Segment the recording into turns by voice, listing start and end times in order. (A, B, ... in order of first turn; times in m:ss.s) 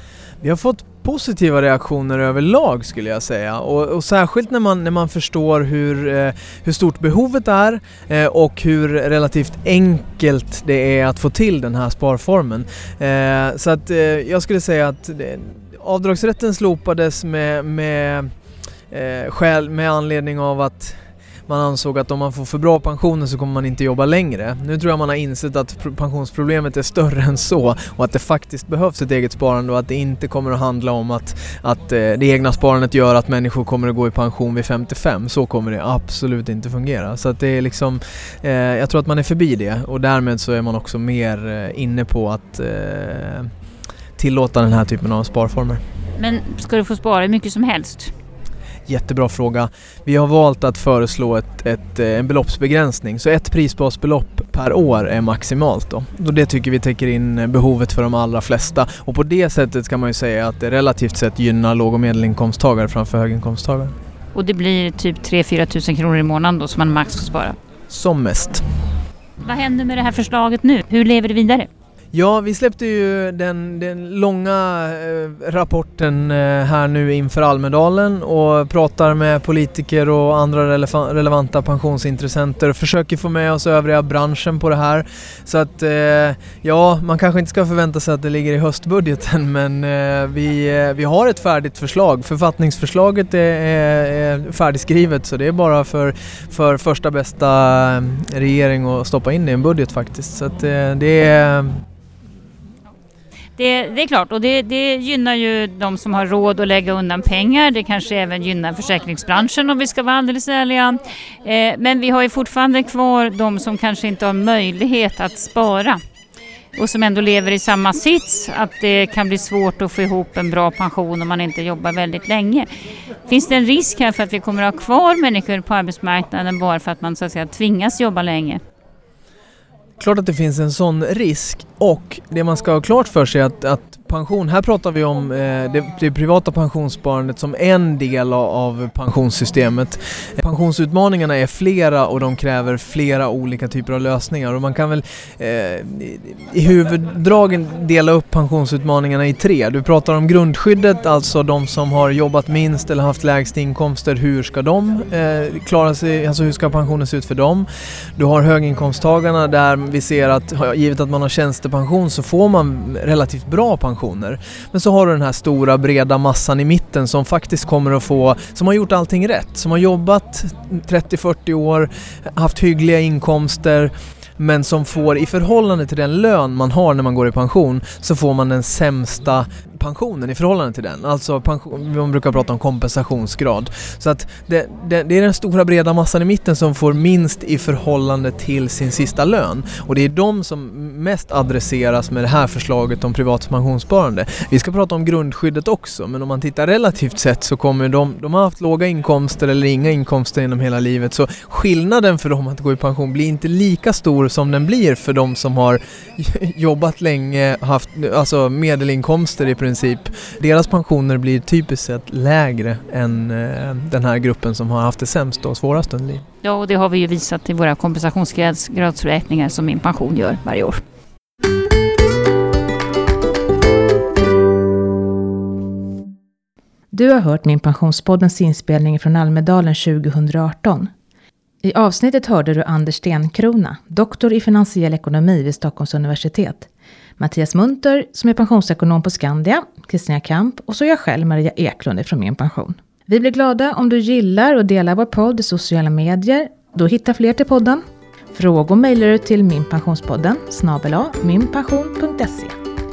0:00.4-0:18.3 A
0:18.9-0:43.5 A
0:44.2-0:45.8 A
0:46.2-0:48.1 B
0:48.9-1:04.0 A
1:04.4-1:07.6 B
1:07.9-1:08.7 A
1:09.4-1:11.7 B
1:12.1-1:41.8 A
1:43.6-1:56.0 B
1:56.8-2:02.7 B
2:03.3-2:08.6 B
2:10.0-3:36.2 A
3:36.4-3:40.8 B
3:46.9-3:50.9 C
3:51.6-4:12.6 C